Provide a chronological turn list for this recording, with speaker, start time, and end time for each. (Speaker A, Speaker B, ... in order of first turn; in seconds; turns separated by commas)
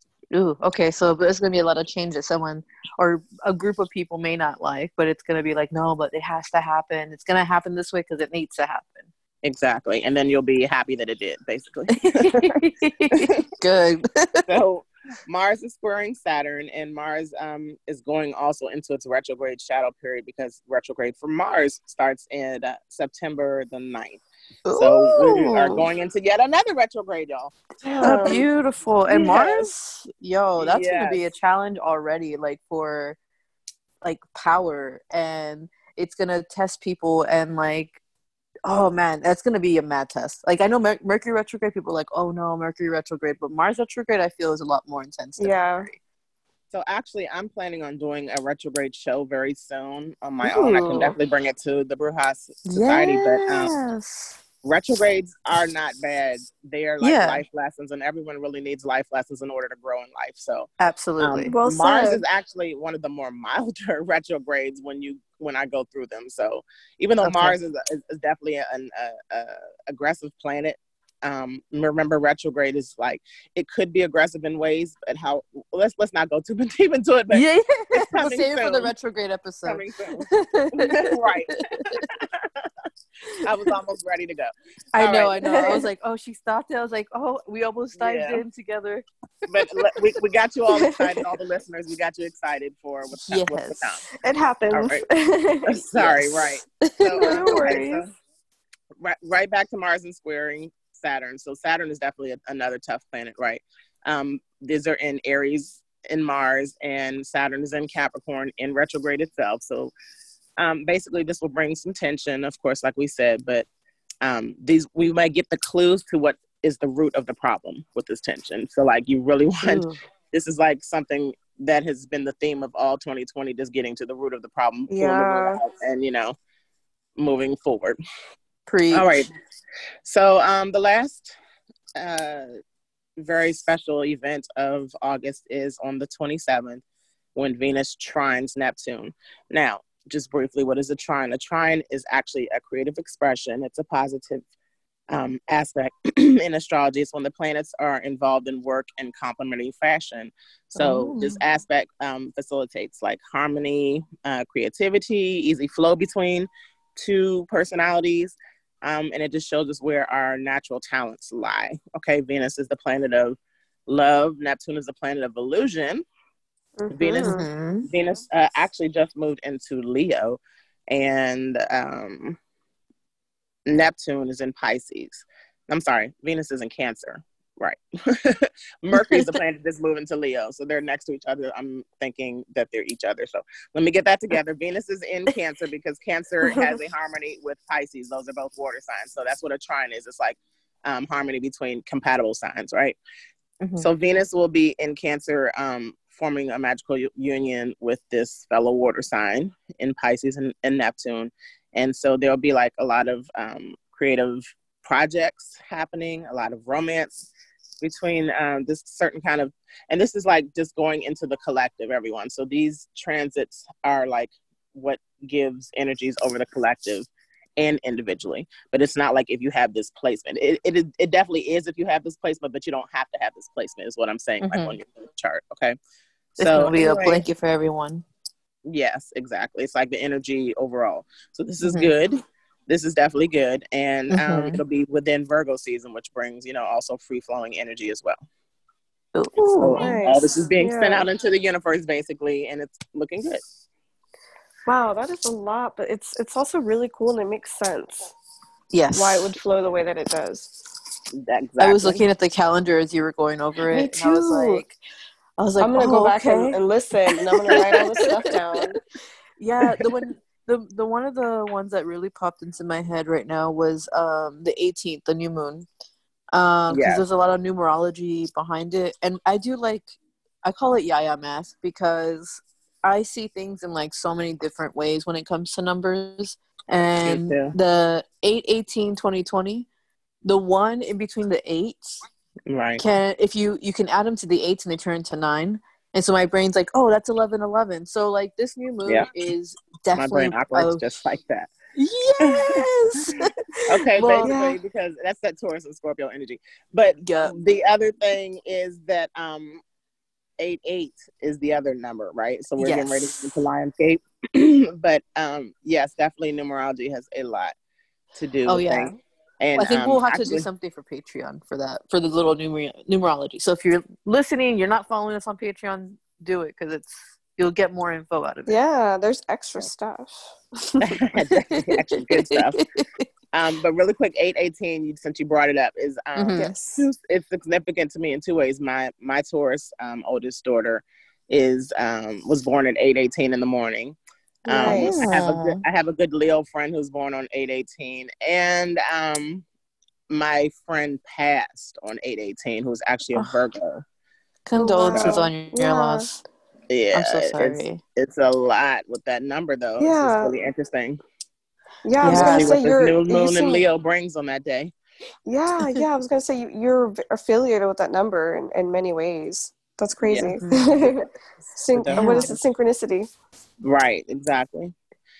Speaker A: 0.3-9.1, Speaker B: 9.4-12.5, Speaker A: 11.9-14.5, Speaker B: 14.5-24.2, Speaker A: 24.6-25.8, Speaker B: 24.8-28.4, Speaker C: 27.8-28.4, Speaker A: 28.0-33.2, Speaker B: 29.1-29.7, Speaker B: 30.6-31.2, Speaker A: 34.0-38.0, Speaker A: 38.6-46.0, Speaker C: 45.4-45.9, Speaker B: 46.7-53.7, Speaker C: 50.4-51.1, Speaker A: 52.6-54.4, Speaker B: 54.6-60.7, Speaker A: 57.0-57.4, Speaker A: 60.8-61.5, Speaker B: 61.2-77.4, Speaker C: 61.5-62.2, Speaker A: 67.2-67.5, Speaker A: 77.3-82.1, Speaker B: 77.9-78.9, Speaker B: 79.6-81.6, Speaker B: 82.2-82.7, Speaker B: 83.4-85.7, Speaker A: 84.9-89.0, Speaker C: 85.4-85.8, Speaker B: 88.0-88.4, Speaker B: 89.5-94.1, Speaker C: 90.8-91.2, Speaker A: 93.2-94.0, Speaker C: 94.2-95.8, Speaker B: 94.7-95.0, Speaker B: 95.7-98.1, Speaker A: 96.0-97.8, Speaker C: 97.2-98.1, Speaker B: 99.0-109.9, Speaker B: 110.6-113.7, Speaker B: 114.2-126.4, Speaker A: 119.6-120.0, Speaker C: 124.9-125.6, Speaker B: 127.2-128.0, Speaker A: 128.7-129.1, Speaker B: 128.9-129.3, Speaker B: 130.0-131.3, Speaker B: 131.9-132.5, Speaker B: 133.2-136.8, Speaker B: 137.3-144.5, Speaker B: 145.1-166.0, Speaker A: 150.8-151.4, Speaker C: 166.8-167.4, Speaker B: 166.9-172.4, Speaker A: 167.2-167.8, Speaker B: 173.7-193.0, Speaker A: 179.0-179.3, Speaker A: 193.6-193.9, Speaker B: 193.8-207.3, Speaker B: 207.8-217.1, Speaker B: 217.6-225.8, Speaker A: 224.4-224.8, Speaker A: 226.4-228.0, Speaker B: 226.4-227.2, Speaker B: 228.7-238.2, Speaker A: 231.6-231.9, Speaker A: 234.1-234.6, Speaker A: 239.1-239.9, Speaker B: 239.5-243.4, Speaker C: 239.8-241.1, Speaker C: 244.7-248.1, Speaker A: 248.7-249.3, Speaker C: 248.9-250.5, Speaker B: 251.1-252.0, Speaker A: 251.6-254.7, Speaker C: 253.7-254.6, Speaker A: 255.4-256.6, Speaker C: 255.6-258.8, Speaker A: 257.5-258.6, Speaker A: 259.4-265.7, Speaker A: 266.3-279.7, Speaker B: 266.7-267.0, Speaker B: 277.0-277.5, Speaker A: 280.2-282.0, Speaker B: 282.5-282.8, Speaker A: 282.8-290.8, Speaker B: 289.9-291.5, Speaker A: 291.8-294.3, Speaker B: 292.2-292.6, Speaker B: 293.7-299.6, Speaker C: 294.2-294.6, Speaker A: 297.0-297.4, Speaker B: 300.4-307.5, Speaker A: 302.6-303.4, Speaker B: 308.1-310.5, Speaker A: 308.4-309.0, Speaker A: 309.6-318.6, Speaker C: 318.5-320.8, Speaker B: 320.8-322.6, Speaker A: 321.5-323.0, Speaker B: 323.3-339.4, Speaker A: 326.1-326.5, Speaker C: 326.3-326.9, Speaker C: 334.4-335.1, Speaker A: 334.6-335.6, Speaker B: 340.1-343.8, Speaker A: 344.4-346.2, Speaker C: 344.6-346.1, Speaker B: 346.7-351.0, Speaker A: 346.9-347.8, Speaker C: 349.8-350.3, Speaker C: 351.8-353.6, Speaker A: 352.0-352.5, Speaker B: 352.0-354.7, Speaker C: 355.2-361.1, Speaker B: 360.0-362.4, Speaker A: 360.4-360.7, Speaker C: 361.6-363.1, Speaker A: 361.9-362.4, Speaker B: 363.6-364.7